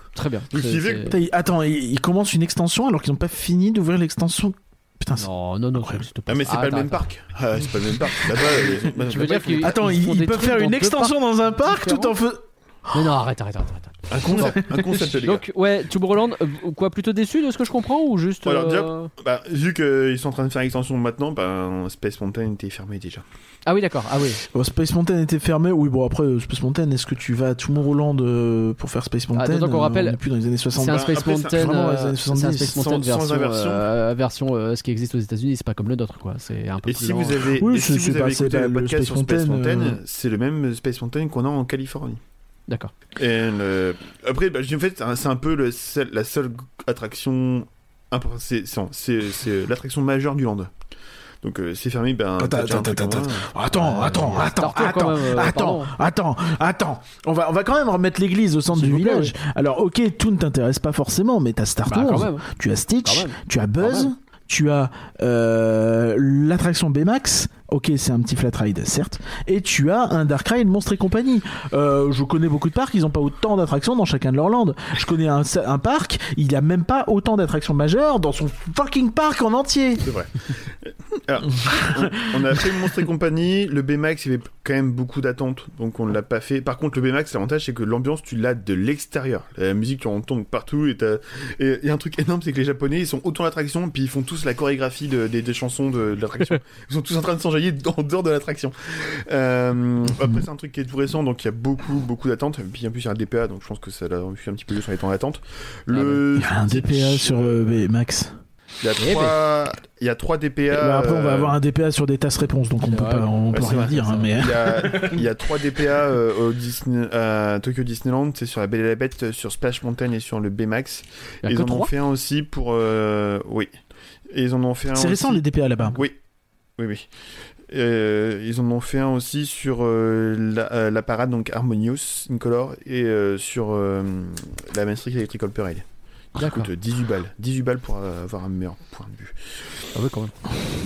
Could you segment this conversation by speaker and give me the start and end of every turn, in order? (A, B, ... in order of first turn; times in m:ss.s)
0:00.1-0:01.2 A
0:00.5-0:01.1 B
0:01.0-0:06.0 C
0:05.2-0:07.0 A
0:06.3-0:09.8 B
0:08.9-0:12.2 A
0:09.6-0:12.4 C
0:12.9-0:19.1 A
0:14.1-0:15.4 B
0:14.2-0:15.1 C
0:18.4-0:23.2 B
0:23.6-0:24.4 A
0:24.5-0:32.8 C
0:29.3-0:30.2 A
0:30.8-0:37.5 A
0:30.9-0:31.7 B
0:32.6-0:33.8 B
0:36.8-0:42.2 B
0:37.6-0:40.0 C
0:42.7-0:42.9 A
0:43.1-0:50.7 B
0:51.4-0:54.4 B
0:52.4-1:20.1 C
0:54.2-0:55.9 A
0:58.7-0:59.3 A
1:01.9-1:02.5 A
1:03.0-1:04.1 A
1:20.0-1:47.8 B
1:21.6-1:22.8 C
1:45.9-1:46.2 A
1:46.3-1:48.4 C
1:48.8-1:51.6 B
1:49.0-1:49.3 A
1:50.7-1:55.4 C
1:52.8-1:54.5 A
1:53.5-2:03.7 B
2:01.4-2:01.9 A
2:04.3-2:06.2 B
2:04.9-2:06.0 C
2:06.8-2:07.1 B
2:07.7-2:19.5 B
2:16.4-2:16.7 A
2:19.9-2:20.3 A